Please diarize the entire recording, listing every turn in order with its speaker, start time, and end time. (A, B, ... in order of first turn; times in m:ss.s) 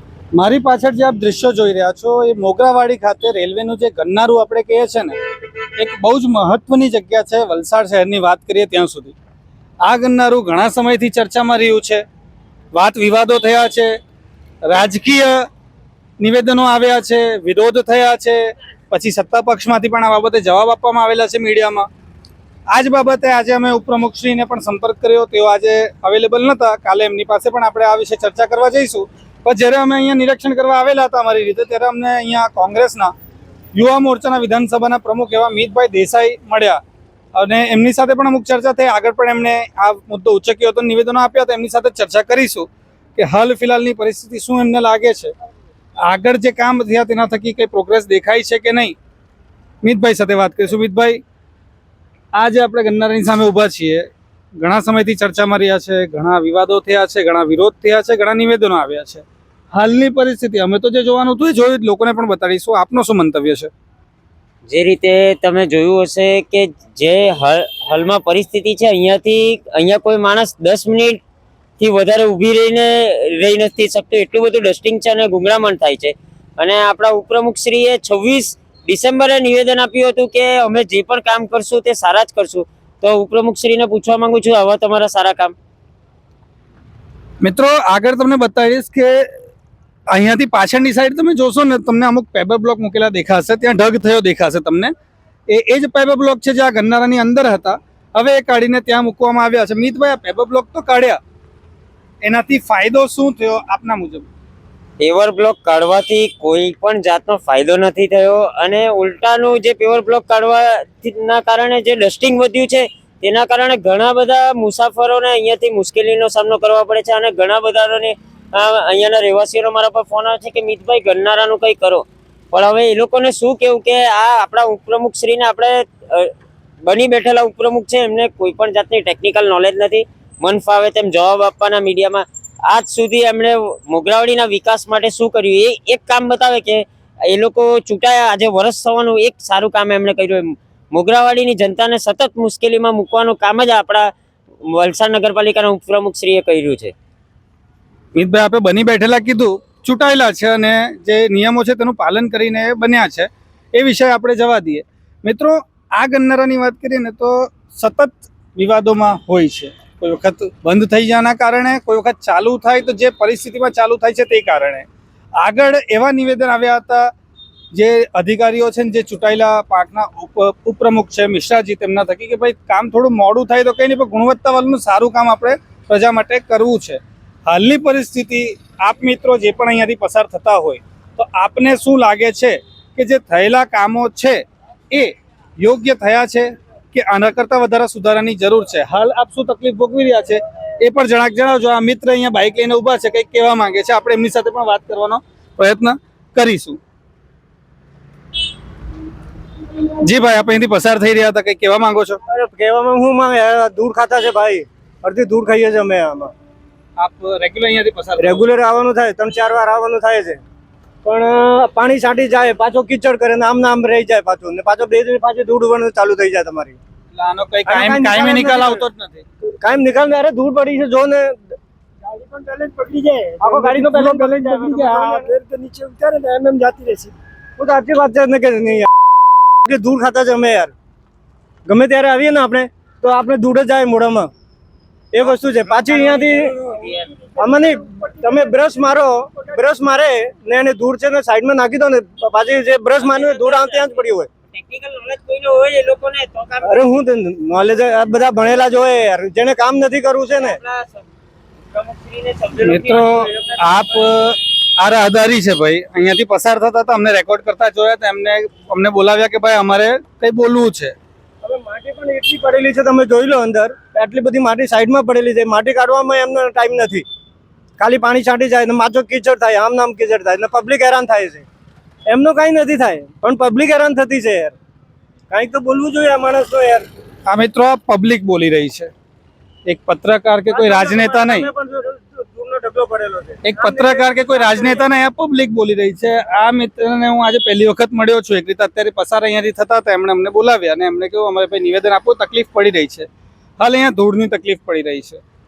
0:00.4-0:05.1 A
0:05.8-0:09.1 A
0:09.8-0:12.0 A
0:12.7-0:14.0 A
0:14.6-0:15.5 A
0:16.2-0:21.9 A
0:22.7-0:33.1 A
0:33.8-0:36.8 A
0:37.4-0:45.3 A
0:46.1-0:49.0 A
0:49.8-0:51.2 A
0:52.3-0:54.1 A
0:54.6-1:03.7 A
1:04.7-1:11.2 B
1:11.8-1:25.5 B
1:27.4-1:29.3 A
1:30.1-1:34.9 A
1:35.5-1:41.2 A
1:42.2-1:44.3 A
1:45.0-2:06.3 B
2:06.8-2:24.1 B
2:24.7-2:26.9 B
2:28.2-2:44.9 A
2:45.4-2:47.1 A
2:47.7-3:16.8 A
3:20.0-3:22.2 A
3:22.3-3:26.3 C
3:27.0-3:28.4 A
3:28.2-3:30.4 C
3:31.0-3:36.8 C
3:37.1-3:39.2 A
3:37.7-3:38.8 C
3:39.6-3:41.6 C
3:42.1-3:48.9 C
3:43.6-3:45.2 A
3:49.6-3:50.7 C
3:51.7-3:54.3 C
3:55.1-3:56.6 C
3:55.7-3:57.1 B
3:57.4-4:04.3 C
4:03.0-4:06.9 B
4:06.6-4:10.6 C
4:10.3-4:11.0 B
4:11.7-4:13.6 B
4:12.6-4:20.9 A
4:21.4-4:27.0 C
4:27.8-4:31.4 C
4:32.1-4:34.6 C
4:35.3-4:36.9 C
4:37.3-4:38.9 A
4:39.7-4:41.5 A
4:40.5-4:44.8 C
4:43.4-4:53.1 A
4:53.6-4:55.2 A